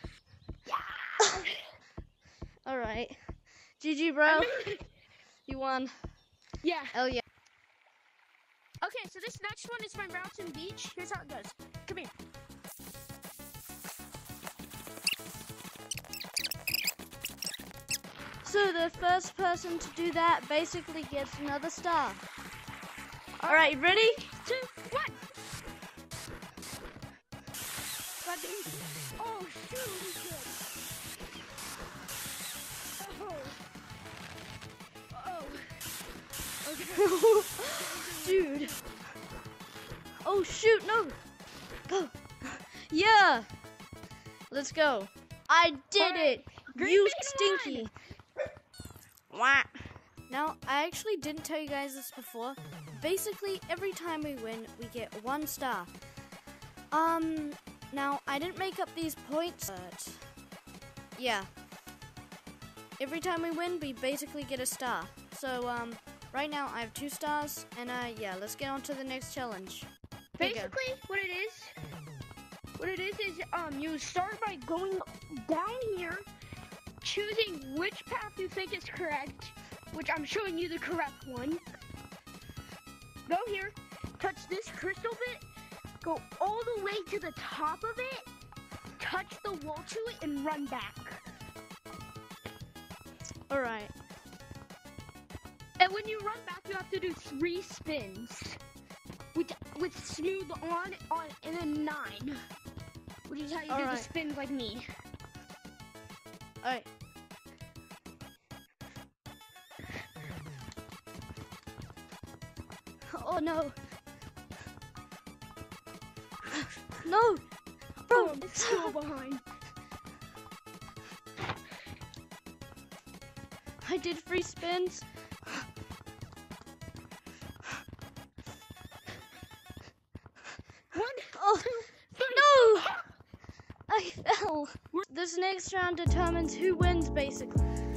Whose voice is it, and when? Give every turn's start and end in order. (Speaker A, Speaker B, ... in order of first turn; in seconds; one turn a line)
Speaker A: 0.7-1.6
Speaker B: 2.6-3.2
Speaker B: 3.8-4.5
Speaker A: 4.2-4.9
Speaker B: 5.5-5.9
Speaker A: 6.6-7.0
Speaker B: 6.9-7.2
Speaker A: 8.8-12.1
Speaker B: 18.4-22.2
Speaker A: 23.4-25.2
Speaker B: 23.5-24.2
Speaker A: 28.2-30.6
Speaker A: 33.0-33.6
Speaker A: 35.1-35.8
Speaker A: 36.6-38.8
Speaker B: 36.9-38.7
Speaker B: 40.2-41.2
Speaker B: 41.9-43.5
Speaker B: 44.5-47.9
Speaker A: 46.0-47.9
Speaker B: 49.3-49.7
Speaker B: 50.3-55.9
Speaker B: 56.9-60.2
Speaker B: 61.2-61.5
Speaker B: 63.0-69.9
Speaker A: 70.4-71.8
Speaker B: 70.4-70.7
Speaker A: 72.8-76.2
Speaker A: 77.0-81.6
Speaker A: 83.2-85.4
Speaker A: 86.0-88.3
Speaker A: 89.0-91.2
Speaker B: 93.5-93.9
Speaker A: 95.8-98.6
Speaker A: 99.3-102.4
Speaker A: 103.3-104.8
Speaker B: 103.7-104.1
Speaker B: 106.6-106.9
Speaker B: 113.1-113.7
Speaker B: 117.0-117.4
Speaker B: 118.1-118.9
Speaker A: 118.1-119.4
Speaker B: 123.8-125.0
Speaker A: 130.9-133.0
Speaker B: 131.3-131.7
Speaker B: 132.3-132.9
Speaker B: 133.9-137.6